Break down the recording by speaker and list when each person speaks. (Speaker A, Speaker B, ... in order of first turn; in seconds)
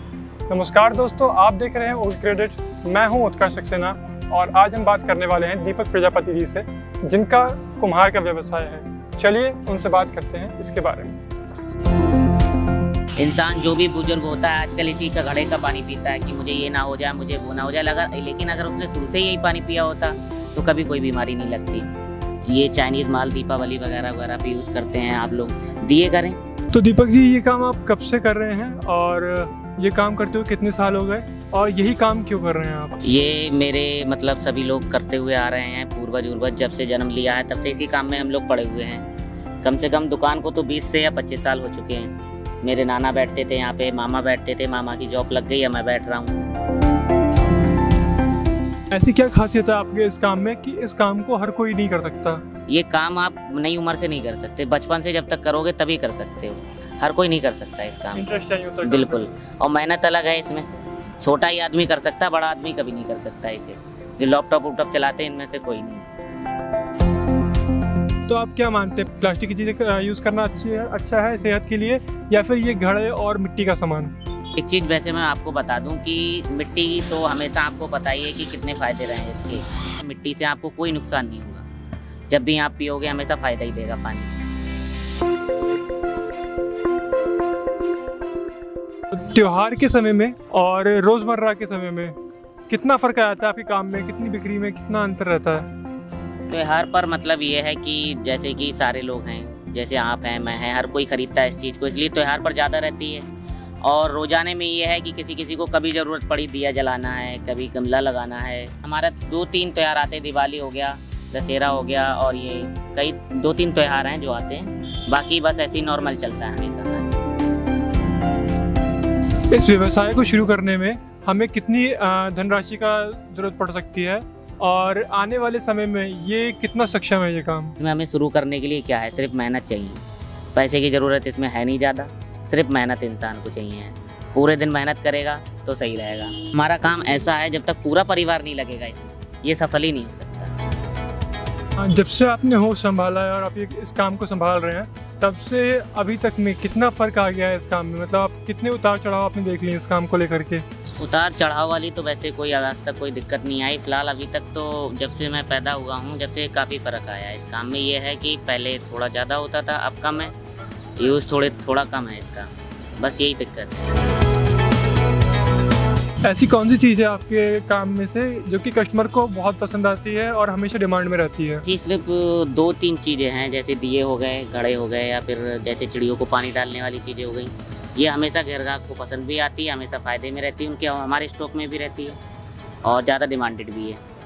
Speaker A: 0.5-11.2, 26.7-33.0, 48.9-52.4, 58.1-59.3, 68.3-74.1, 89.1-92.2, 92.7-95.7, 119.5-127.8, 141.8-150.6, 166.3-171.6
Speaker B: 13.2-21.9, 22.4-26.4, 33.0-39.1, 39.6-42.1, 42.6-46.4, 52.7-60.7, 61.2-66.1, 74.6-81.7, 82.3-84.3, 96.5-103.3, 103.8-117.1, 127.8-130.0, 130.6-140.5, 151.0-160.3, 161.0-163.8, 171.6-182.2, 182.8-184.0